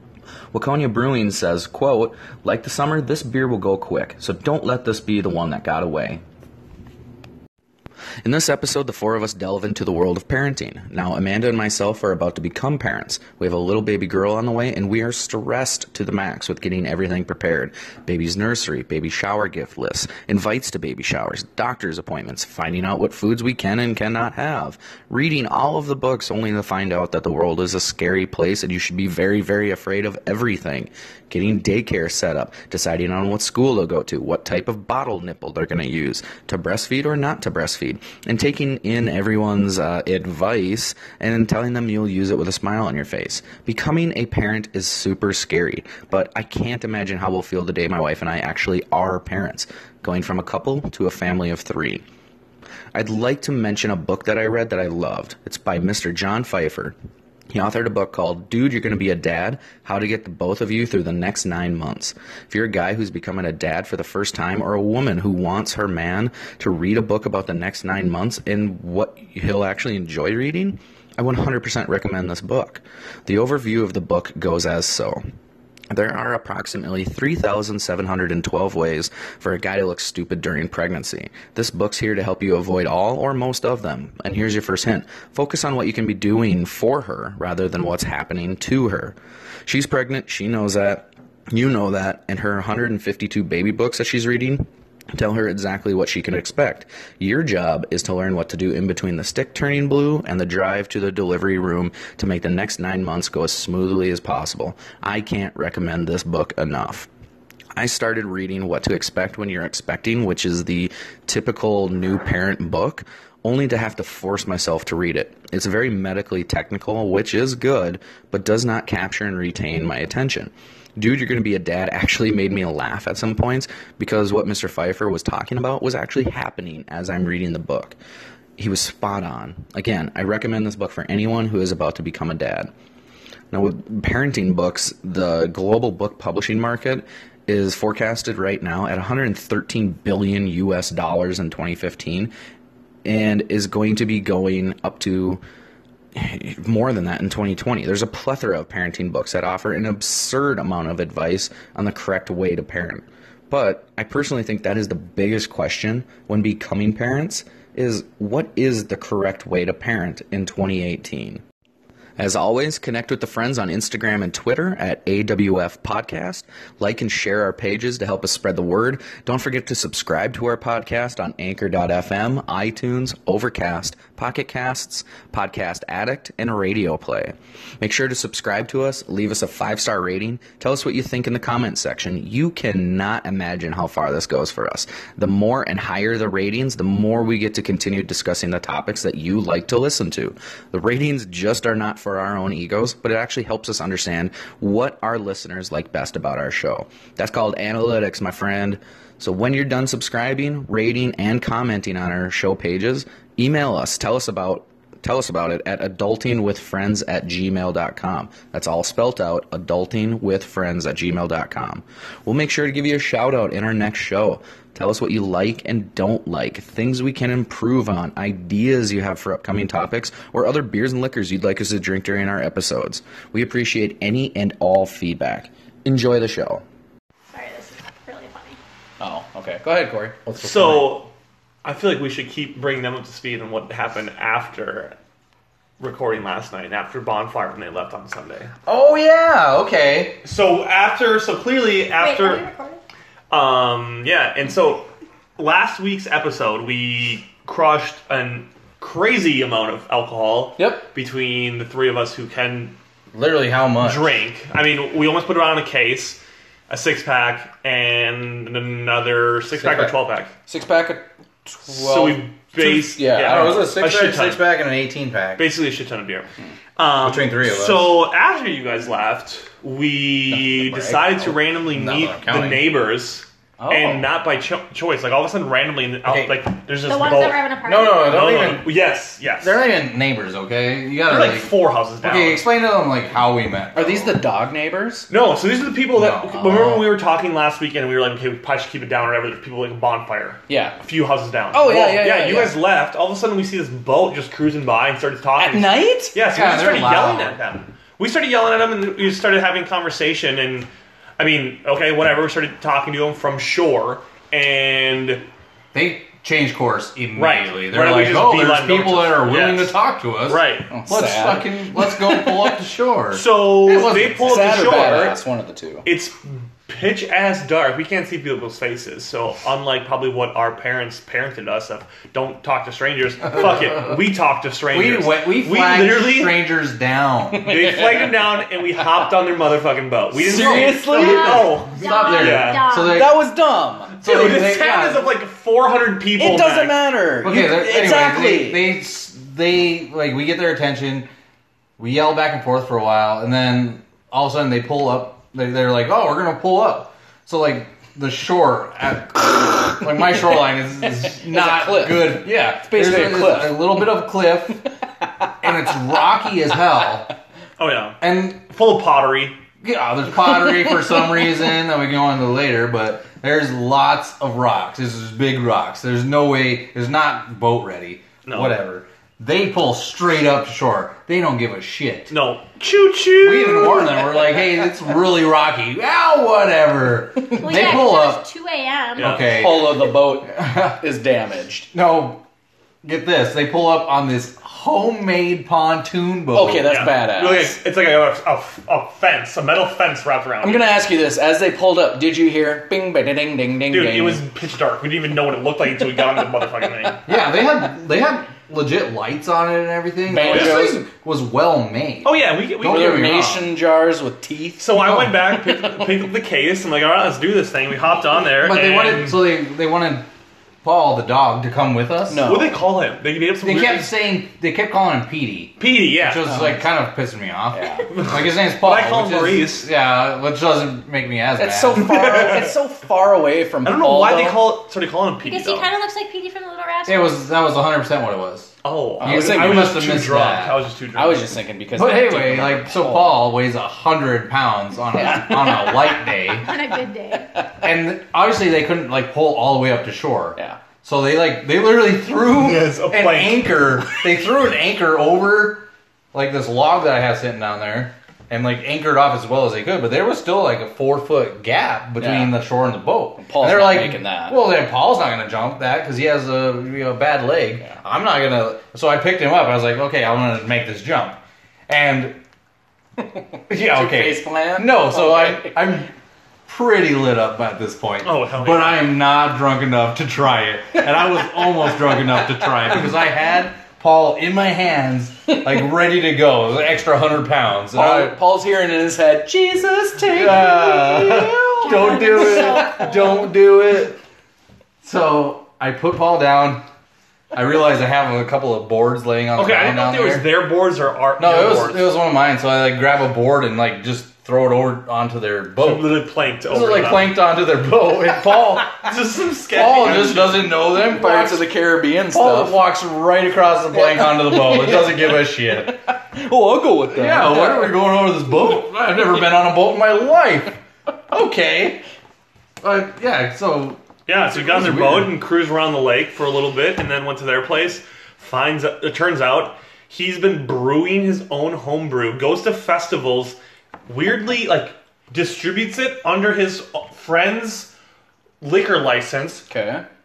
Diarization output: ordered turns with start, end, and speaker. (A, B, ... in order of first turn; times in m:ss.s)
0:00.5-0:06.2 A
0:08.2-0:52.0 A
0:52.9-0:56.9 A
0:57.5-1:15.2 A
1:15.9-1:47.1 A
1:47.8-2:08.0 A
2:08.6-2:12.7 A
2:13.5-2:22.3 A
2:23.0-2:25.4 A
2:26.1-2:41.4 A
2:42.2-3:46.6 A
3:47.3-3:48.6 B
3:49.0-3:50.9 C
3:50.4-3:51.1 D
3:51.6-3:55.0 D
3:55.8-3:58.5 D
3:58.6-4:00.2 E
4:00.2-4:02.4 D
4:02.0-4:02.8 B
4:03.3-4:12.8 D
4:10.6-4:10.8 C
4:13.1-4:14.2 E
4:13.8-4:20.3 D
4:19.6-4:19.9 C
4:20.5-4:22.5 C
4:21.6-4:24.4 D
4:22.6-4:25.5 E
4:25.4-4:37.4 D
4:27.0-4:28.0 E
4:30.3-4:31.1 C
4:31.7-4:32.7 E
4:33.6-4:34.1 C
4:36.0-4:36.4 E
4:36.8-4:38.2 B
4:37.6-4:38.7 E
4:38.0-4:39.6 D
4:39.4-4:44.2 E
4:41.0-4:42.4 D
4:43.7-4:45.1 C
4:45.1-5:05.2 D
4:45.9-4:46.6 E
4:46.4-4:46.8 C
4:50.5-4:50.8 C
4:51.5-4:52.6 C
4:55.4-4:56.2 C
4:56.3-4:57.4 E
5:05.7-5:14.7 E
5:07.2-5:10.7 D
5:10.7-5:12.5 C
5:13.1-5:15.2 D
5:14.2-5:15.9 C
5:15.8-5:26.4 D
5:23.3-5:24.0 E
5:24.7-5:27.6 E
5:27.4-5:32.6 D
5:27.4-5:28.1 C
5:30.1-5:31.5 C
5:30.3-5:33.2 E
5:31.0-5:33.1 B
5:32.8-5:35.0 C
5:34.0-5:36.8 D
5:34.0-5:34.9 E
5:36.2-5:38.7 C
5:37.2-5:41.1 E
5:41.8-5:54.7 E
5:51.1-5:53.8 C
5:55.4-5:57.1 E
5:57.6-5:59.4 D
5:58.0-5:58.4 E
5:59.6-6:12.1 E
6:08.2-6:08.6 D
6:12.1-6:14.1 D
6:13.2-6:18.2 E
6:17.3-6:19.1 B
6:19.0-6:20.8 E
6:19.0-6:19.3 D
6:19.2-6:21.7 C
6:21.7-6:22.2 E
6:22.8-6:26.8 E
6:26.3-6:27.5 C
6:26.7-6:30.6 D
6:30.4-6:34.2 C
6:33.7-6:37.1 D
6:37.0-6:43.5 E
6:40.1-6:40.8 C
6:40.3-6:40.8 D
6:42.0-6:43.1 D
6:42.6-6:45.8 C
6:44.6-6:49.3 D
6:48.4-6:50.1 E
6:50.6-6:52.3 E
6:52.1-6:52.6 C
6:52.2-6:53.9 D
6:53.4-7:01.9 E
6:55.6-6:56.3 D
6:56.2-6:56.6 C
6:57.5-6:57.9 C
6:57.9-6:59.7 D
7:01.4-7:04.5 C
7:01.9-7:02.5 D
7:03.6-7:05.7 D
7:05.2-7:07.2 B
7:06.8-7:10.6 E
7:08.6-7:11.3 D
7:09.0-7:09.8 C
7:10.9-7:13.2 C
7:11.8-7:16.5 E
7:14.9-7:15.9 C
7:16.3-7:17.3 B
7:17.6-7:42.2 E
7:22.3-7:24.0 D
7:32.0-7:32.4 C
7:33.2-7:34.4 C
7:43.5-7:45.9 E
7:43.5-7:45.7 C
7:46.5-7:58.2 E
7:48.0-7:48.9 D
7:57.7-8:02.9 C
8:00.1-8:04.0 E
8:01.6-8:03.2 B
8:04.8-8:06.6 E
8:07.3-8:10.3 E
8:09.3-8:11.9 D
8:11.2-8:18.9 E
8:15.6-8:17.2 D
8:18.7-8:20.5 D
8:19.5-8:21.5 E
8:20.6-8:22.6 C
8:22.1-8:25.7 E
8:23.7-8:27.8 C
8:26.9-8:30.6 E
8:31.1-8:31.8 E
8:32.6-8:35.2 E
8:34.1-8:43.4 D
8:43.9-8:47.7 D
8:48.4-8:49.4 D
8:49.5-8:49.8 C